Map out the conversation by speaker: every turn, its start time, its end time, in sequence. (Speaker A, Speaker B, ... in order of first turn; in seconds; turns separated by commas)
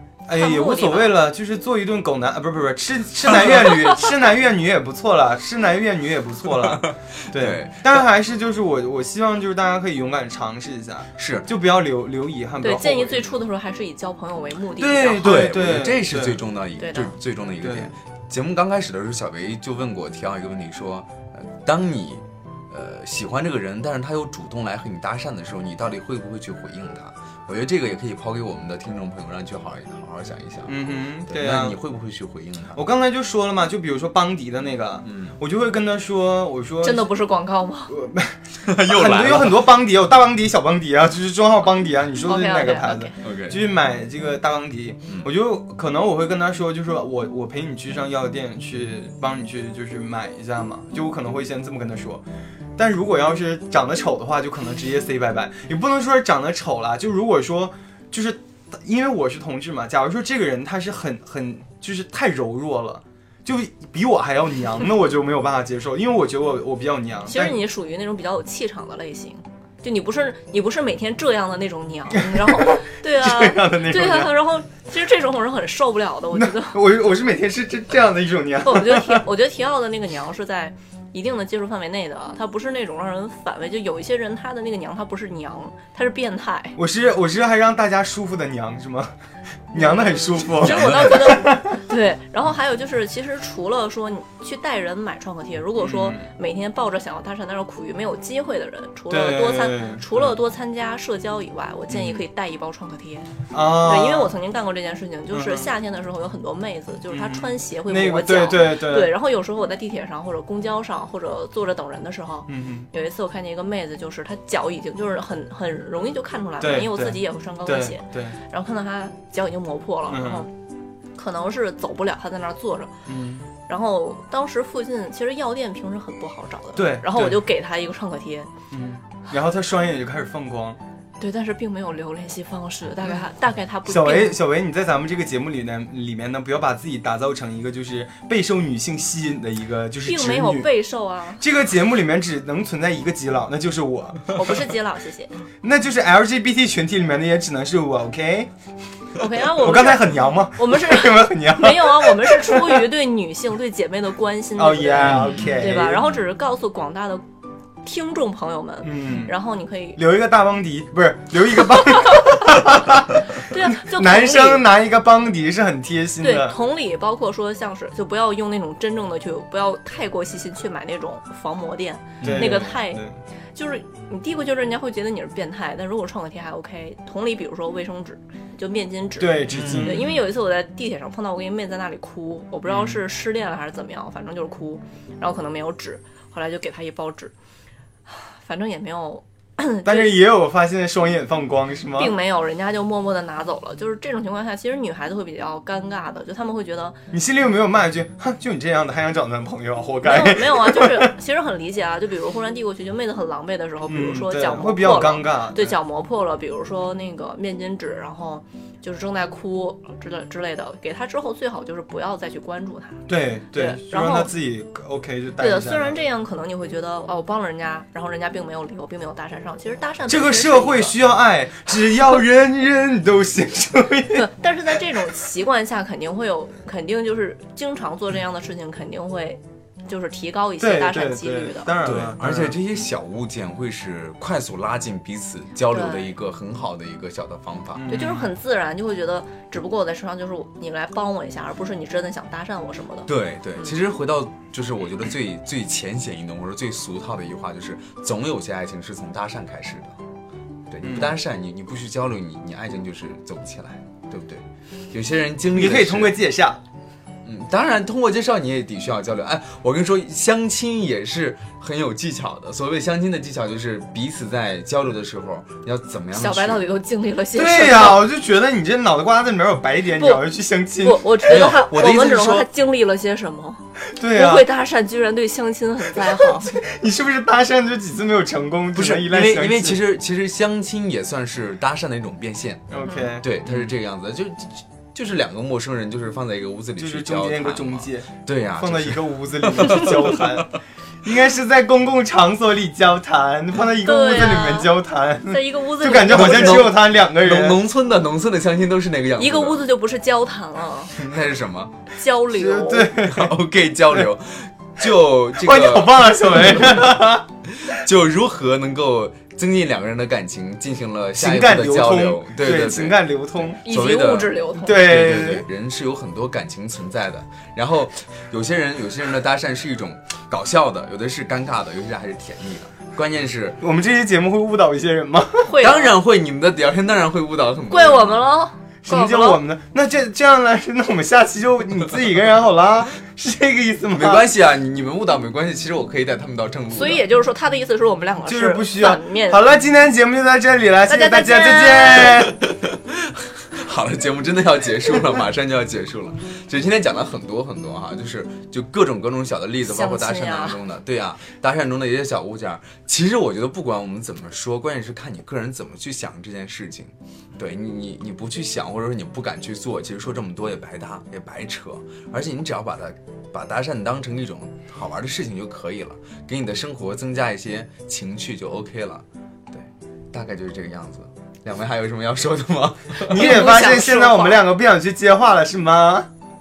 Speaker A: 0.3-13.4, Speaker B: 0.3-1.2, Speaker C: 6.6-8.0, Speaker C: 11.2-11.5, Speaker B: 12.6-15.5, Speaker A: 14.8-16.4, Speaker C: 15.2-32.9, Speaker B: 16.8-17.1, Speaker A: 17.6-17.9, Speaker A: 30.7-31.8, Speaker A: 32.7-37.1, Speaker C: 35.0-35.4, Speaker B: 36.8-37.9, Speaker A: 37.9-52.2, Speaker C: 38.6-39.7, Speaker B: 42.2-43.1, Speaker C: 43.2-43.6, Speaker A: 52.8-67.6, Speaker B: 67.3-76.8, Speaker A: 72.1-74.4, Speaker A: 76.3-79.2, Speaker B: 78.6-86.8, Speaker A: 86.8-89.1, Speaker A: 89.7-91.8, Speaker B: 89.7-120.5, Speaker C: 90.4-91.5, Speaker A: 95.8-96.3, Speaker A: 99.1-100.3, Speaker A: 101.9-102.2, Speaker A: 103.5-104.3, Speaker A: 105.3-105.7, Speaker A: 107.1-109.1, Speaker A: 112.5-112.9, Speaker A: 116.6-118.4, Speaker A: 120.1-120.5, Speaker B: 121.1-122.9, Speaker A: 123.1-123.5, Speaker B: 123.7-128.5, Speaker A: 126.8-127.4, Speaker A: 128.7-130.8, Speaker B: 131.2-134.4, Speaker A: 133.8-140.7, Speaker B: 140.0-141.4, Speaker A: 141.4-144.7, Speaker B: 144.3-145.3, Speaker A: 145.6-148.5, Speaker B: 149.2-157.2, Speaker A: 149.2-152.9, Speaker A: 154.6-156.1, Speaker C: 155.0-155.6, Speaker B: 157.8-160.0, Speaker A: 158.8-159.3, Speaker A: 159.9-166.6, Speaker B: 163.3-164.7, Speaker B: 166.2-187.3, Speaker C: 172.2-172.7, Speaker A: 172.2-173.1, Speaker A: 179.2-180.2, Speaker C: 179.5-180.2, Speaker A: 182.7-183.0, Speaker B: 188.1-190.2, Speaker A: 189.8-192.1, Speaker B: 192.0-197.0, Speaker A: 197.1-201.1, Speaker B: 200.0-214.3, Speaker A: 203.9-205.8, Speaker A: 213.1-216.0, Speaker B: 215.4-220.9, Speaker A: 220.1-225.1, Speaker B: 224.1-231.7, Speaker A: 230.6-232.6, Speaker C: 231.8-238.0, Speaker B: 235.7-236.1, Speaker A: 237.7-238.3, Speaker B: 237.9-243.7, Speaker C: 243.1-249.9, Speaker C: 250.7-256.2, Speaker A: 250.8-251.2, Speaker A: 255.5-256.6, Speaker C: 257.2-266.6, Speaker B: 266.1-268.0, Speaker A: 267.3-271.1, Speaker B: 269.9-270.2, Speaker B: 270.8-276.6, Speaker C: 271.2-272.5, Speaker A: 273.9-274.5, Speaker A: 276.2-279.8, Speaker C: 278.7-290.4, Speaker A: 282.7-283.7, Speaker A: 286.8-297.6, Speaker B: 293.8-294.7, Speaker B: 295.2-296.7, Speaker C: 296.1-299.6, Speaker B: 299.2-300.9, Speaker C: 300.9-301.7, Speaker B: 302.0-302.9, Speaker A: 302.3-303.3, Speaker C: 303.0-306.8, Speaker A: 305.3-307.2, Speaker C: 307.5-323.6, Speaker A: 311.1-313.6, Speaker B: 313.6-314.8, Speaker A: 314.6-315.4, Speaker A: 323.6-325.6, Speaker B: 325.4-326.0, Speaker C: 325.6-328.3, Speaker B: 327.7-329.4, Speaker A: 328.8-334.3, Speaker C: 333.9-337.0, Speaker B: 336.7-339.4, Speaker A: 338.2-342.3, Speaker B: 340.9-342.2, Speaker C: 342.2-373.2, Speaker B: 349.6-350.6, Speaker A: 373.1-376.1, Speaker B: 373.1-374.4